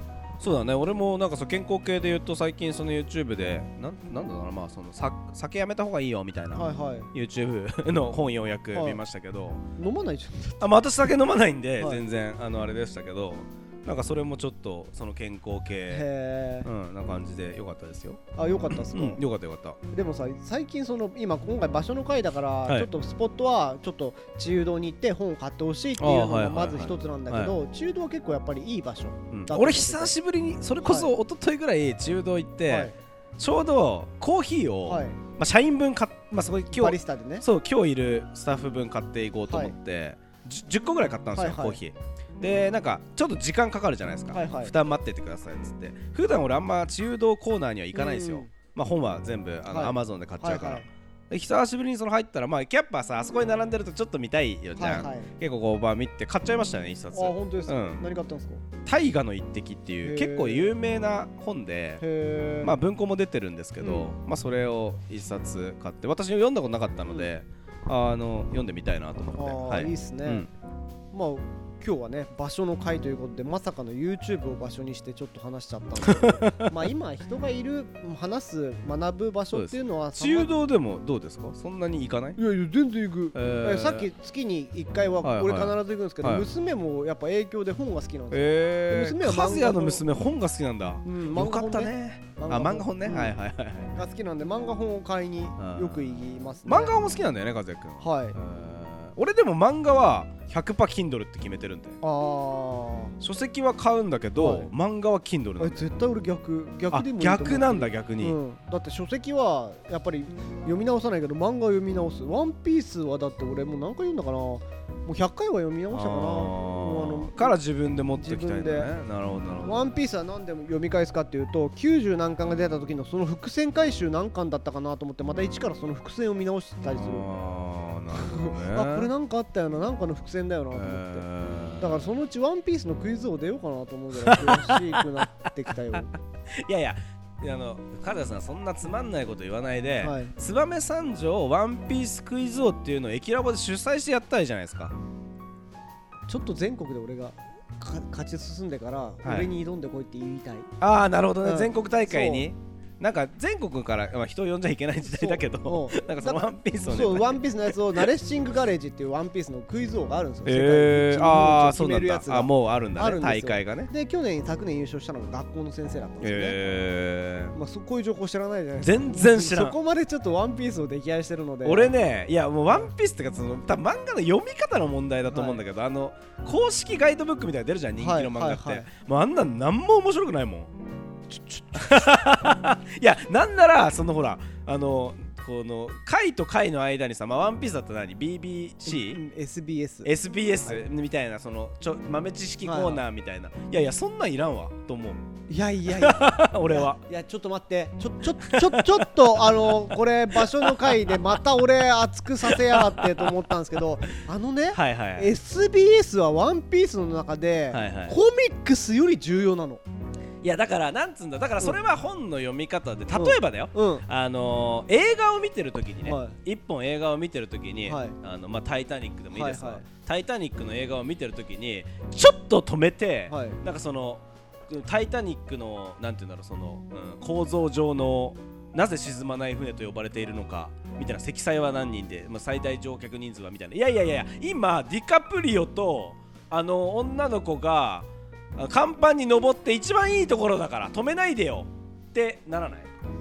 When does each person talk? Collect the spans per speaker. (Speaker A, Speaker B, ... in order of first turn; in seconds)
Speaker A: 0.4-9.6, 10.6-16.1, 16.6-19.8, 26.0-27.6, 29.3-58.1, 58.8-62.0, 62.6-70.5, 76.0-76.7, 79.5-82.4, 83.3-84.1, 85.2-86.5, 88.3-94.0, 95.6-102.0, 103.2-105.9, 106.9-108.4, 115.9-119.9, 126.9-129.1, 130.7-132.1, 134.1-135.2, 136.6-144.9, 149.2-149.5, 150.8-158.1, 160.4-163.9, 166.2-167.5, 168.8-169.8, 171.6-180.7, 181.7-189.2, 190.0-195.2, 195.9-197.0, 198.4-201.2, 202.4-203.5, 204.7-205.3, 207.7-208.2, 210.4-242.9
Speaker B: 6.5-7.1, 8.7-9.0, 9.8-10.8, 15.9-16.7, 18.4-19.2, 19.9-30.1, 30.8-31.1, 32.7-32.9, 34.9-35.2, 36.7-37.4, 39.5-39.7, 41.3-41.8, 44.3-44.7, 47.9-48.5, 49.7-50.9, 54.8-55.3, 57.1-58.6, 60.0-60.7, 62.0-62.8, 63.8-64.1, 69.3-70.5, 71.1-80.5, 82.4-90.0, 91.0-93.3, 93.9-96.9, 98.0-98.3, 102.0-103.1, 104.3-104.7, 105.6-117.6, 118.1-118.9, 119.6-127.2, 128.1-131.2, 131.8-136.1, 140.0-140.3, 146.3-150.7, 151.4-152.5, 155.0-166.6, 167.5-171.9, 175.3-175.6, 178.0-178.9, 181.3-181.7, 188.8-190.1, 192.6-193.0, 195.5-209.8, 213.1-214.0, 216.0-216.4, 217.8-218.2, 219.3-219.8, 223.3-223.6